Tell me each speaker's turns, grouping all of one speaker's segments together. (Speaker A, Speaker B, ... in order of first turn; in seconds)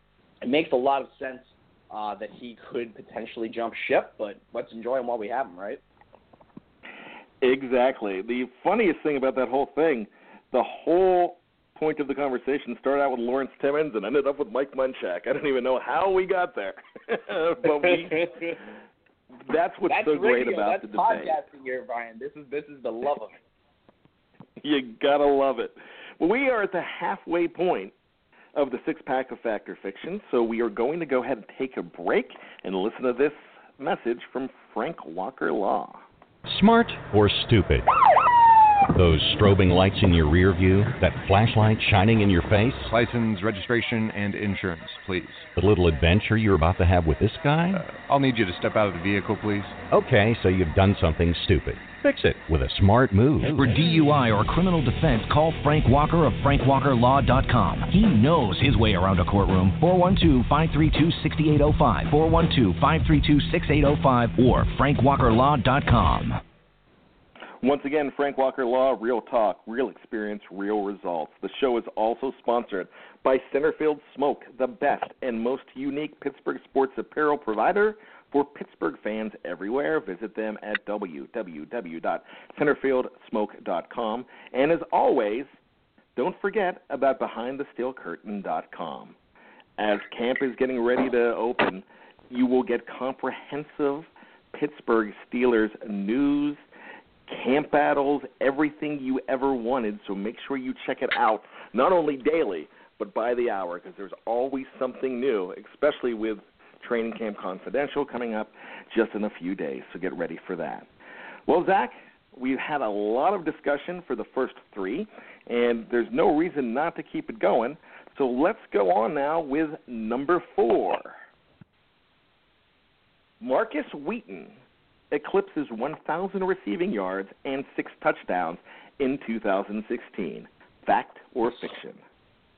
Speaker A: 0.4-5.8, 17.8-18.5, 19.9-23.4
Speaker B: 7.4-18.5, 19.4-21.4, 24.6-27.9, 28.6-36.0, 67.6-85.5, 86.2-89.2, 89.8-96.6, 97.3-110.9, 111.5-121.2, 123.4-124.6, 125.1-132.0
Speaker C: 36.5-37.9, 38.9-42.9, 45.5-47.9, 49.9-53.5
Speaker D: 42.9-45.5, 47.9-49.9
Speaker E: 53.5-66.4